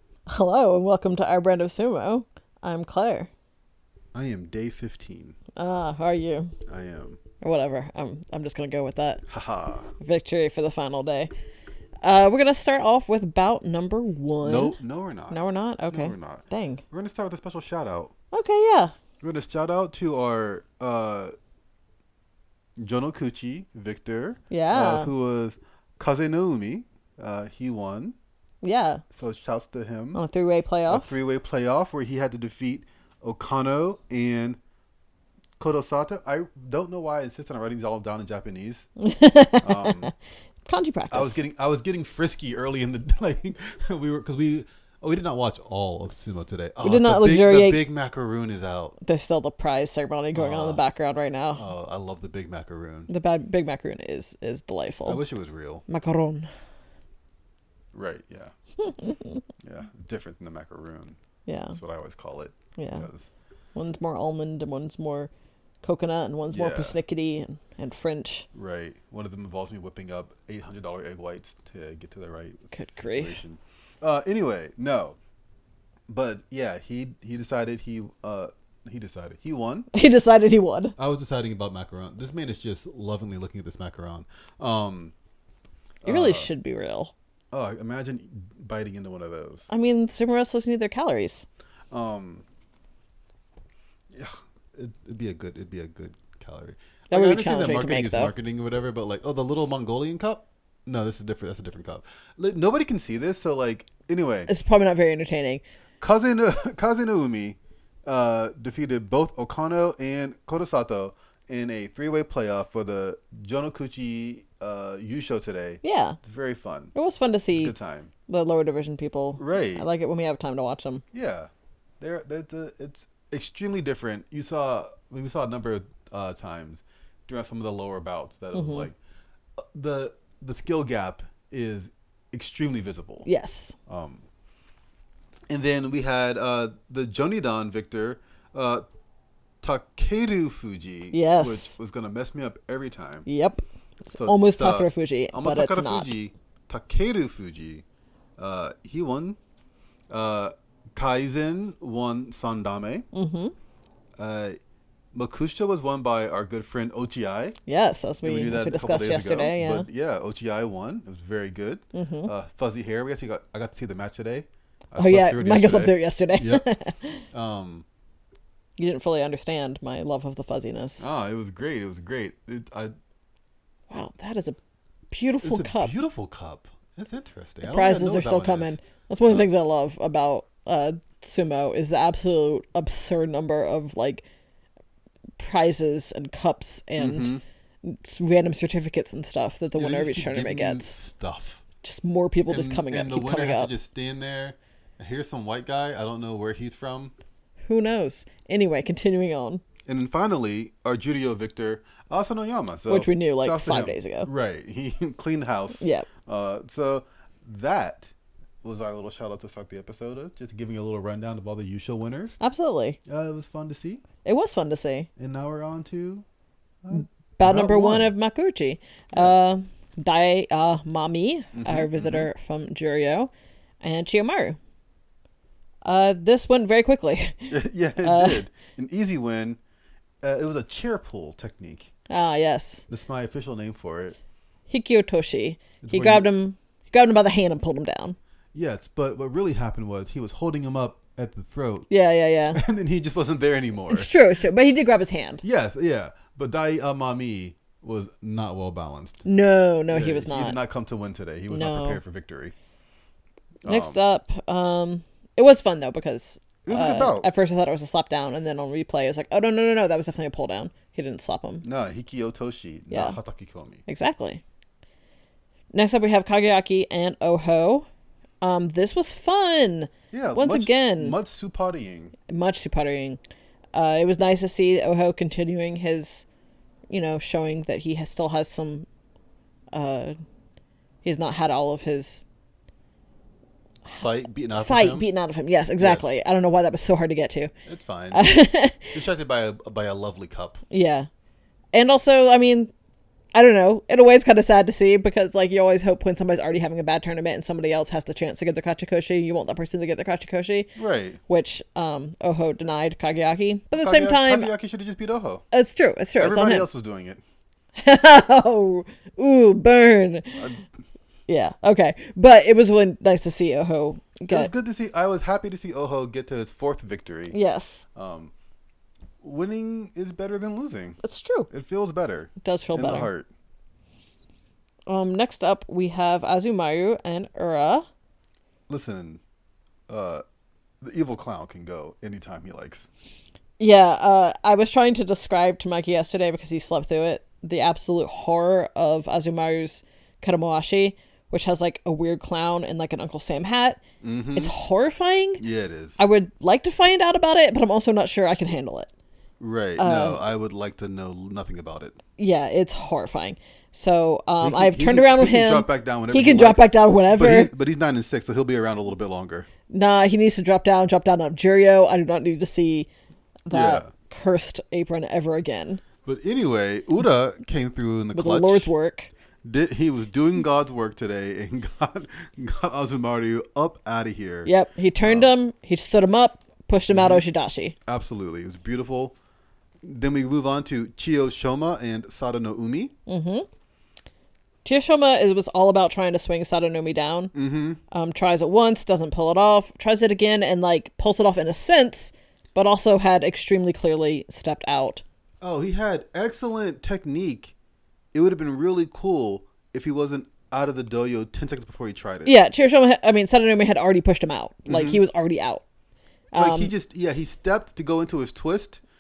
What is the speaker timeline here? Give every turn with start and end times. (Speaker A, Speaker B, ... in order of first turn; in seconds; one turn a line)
Speaker A: 0.3-3.3
Speaker B: 4.1-5.4
Speaker A: 5.6-6.5
Speaker B: 6.7-7.2
Speaker A: 7.4-9.2
Speaker B: 9.3-9.9
Speaker A: 10.0-11.3
Speaker A: 12.0-14.8
Speaker B: 14.4-15.4
Speaker A: 15.3-16.8
Speaker B: 15.9-18.1
Speaker A: 18.3-18.9
Speaker B: 19.2-21.3
Speaker B: 22.8-28.2
Speaker A: 24.5-25.1
Speaker A: 28.6-29.0
Speaker B: 29.1-30.2
Speaker A: 30.1-31.1
Speaker B: 30.9-34.6
Speaker B: 35.6-38.9
Speaker A: 39.0-40.1
Speaker B: 39.6-40.1
Speaker A: 40.6-41.4
Speaker B: 41.1-49.0
Speaker A: 46.8-47.8
Speaker A: 49.0-51.6
Speaker B: 50.3-50.8
Speaker B: 51.6-53.1
Speaker A: 53.1-55.2
Speaker B: 55.0-55.8
Speaker A: 55.9-56.5
Speaker B: 57.9-58.5
Speaker A: 58.8-59.4
Speaker B: 59.6-61.2
Speaker A: 61.5-61.8
Speaker B: 61.7-63.3
Speaker A: 62.8-63.1
Speaker A: 63.8-65.3
Speaker A: 65.8-68.5
Speaker B: 66.5-67.0
Speaker B: 68.5-75.2
Speaker A: 72.7-73.4
Speaker B: 76.1-79.9
Speaker A: 79.9-80.9
Speaker B: 81.0-85.1
Speaker B: 86.0-86.5
Speaker A: 86.0-87.1
Speaker B: 87.5-89.7
Speaker A: 89.7-91.5
Speaker B: 91.9-92.5
Speaker B: 94.1-104.5
Speaker A: 97.1-98.3
Speaker A: 104.5-105.6
Speaker B: 106.0-116.9
Speaker A: 115.8-116.2
Speaker A: 117.0-117.7
Speaker B: 117.5-118.1
Speaker A: 118.3-121.0
Speaker B: 119.4-119.9
Speaker B: 121.1-129.0
Speaker A: 128.5-128.9
Speaker B: 129.6-133.3
Speaker A: 133.3-133.8
Speaker B: 133.9-134.2
Speaker B: 135.5-138.8
Speaker B: 139.6-143.3
Speaker A: 141.1-141.8
Speaker A: 143.3-146.1
Speaker B: 144.1-147.8
Speaker B: 148.4-149.4
Speaker B: 150.1-153.1
Speaker A: 153.1-153.5
Speaker B: 154.2-154.6
Speaker B: 155.1-157.6
Speaker A: 157.7-159.9
Speaker B: 158.2-166.6
Speaker A: 161.9-162.3
Speaker A: 165.0-167.2
Speaker B: 167.3-167.8
Speaker A: 168.8-171.1
Speaker B: 171.0-172.9
Speaker A: 173.9-174.6
Speaker A: 175.1-175.9
Speaker B: 175.4-179.4
Speaker A: 177.6-184.2
Speaker A: 185.4-191.0
Speaker B: 187.0-187.4
Speaker B: 189.7-191.7
Speaker A: 191.8-193.7
Speaker B: 192.5-197.1
Speaker A: 197.7-199.6
Speaker B: 199.9-208.1
Speaker A: 202.9-204.3
Speaker A: 205.8-206.1
Speaker B: 208.6-212.4
Speaker A: 212.4-213.0
Speaker B: 213.1-214.0
Speaker A: 214.2-215.1
Speaker B: 215.2-216.2
Speaker B: 216.8-218.1
Speaker A: 216.9-223.3
Speaker B: 221.5-222.3
Speaker A: 223.8-224.6
Speaker A: 225.8-228.4
Speaker B: 227.5-229.6
Speaker B: 230.2-231.9
Speaker A: 232.1-232.8
Speaker B: 232.9-234.2
Speaker A: 234.7-238.2
Speaker B: 235.8-236.3
Speaker B: 238.5-241.9
Speaker A: 241.9-242.6
Speaker B: 242.5-244.1
Speaker A: 243.9-245.4
Speaker B: 245.4-249.3
Speaker A: 249.2-250.6
Speaker B: 249.9-252.5
Speaker A: 251.5-252.0
Speaker B: 253.6-254.0
Speaker A: 253.7-261.6
Speaker B: 256.6-257.3
Speaker B: 261.6-263.8
Speaker A: 262.9-263.2
Speaker A: 263.9-264.4
Speaker A: 265.7-267.9
Speaker A: 268.4-271.1
Speaker B: 270.1-272.2
Speaker A: 272.3-273.2
Speaker A: 273.7-276.3
Speaker A: 276.9-278.9
Speaker A: 279.7-280.1
Speaker A: 281.0-282.2
Speaker B: 284.0-285.1
Speaker A: 284.6-287.5
Speaker B: 285.8-286.1
Speaker B: 287.7-288.3
Speaker A: 288.1-288.9
Speaker B: 288.9-290.6
Speaker A: 290.7-291.1
Speaker A: 291.7-292.7
Speaker A: 293.3-300.7
Speaker B: 300.8-301.2
Speaker A: 301.3-304.5
Speaker B: 303.7-305.4
Speaker A: 305.5-306.7
Speaker B: 306.2-307.2
Speaker A: 307.8-310.5
Speaker B: 310.4-310.6
Speaker A: 311.3-314.5
Speaker B: 314.3-317.4
Speaker A: 317.3-317.8
Speaker B: 317.9-318.3
Speaker B: 319.2-323.3
Speaker A: 321.0-321.5
Speaker A: 322.4-323.1
Speaker A: 324.9-327.9
Speaker B: 328.7-329.2
Speaker B: 329.9-330.2
Speaker B: 330.8-332.9
Speaker A: 333.6-343.8
Speaker B: 344.0-344.5
Speaker A: 344.3-345.4
Speaker B: 345.4-346.0
Speaker A: 346.0-348.9
Speaker B: 349.4-352.0
Speaker A: 349.8-350.2
Speaker A: 352.2-357.5
Speaker B: 354.4-359.5
Speaker A: 359.7-362.9
Speaker A: 363.5-365.8
Speaker B: 363.5-363.9
Speaker B: 366.1-368.7
Speaker A: 368.1-369.1
Speaker B: 369.4-375.3
Speaker A: 374.5-377.8
Speaker B: 376.9-377.2
Speaker B: 377.9-379.1
Speaker B: 379.8-382.9
Speaker A: 383.1-383.5
Speaker A: 384.6-387.3
Speaker B: 387.3-387.8
Speaker A: 387.9-395.0
Speaker B: 395.4-397.5
Speaker B: 398.1-402.4
Speaker A: 402.2-405.6
Speaker B: 404.7-405.0
Speaker A: 406.3-406.7
Speaker B: 406.3-408.8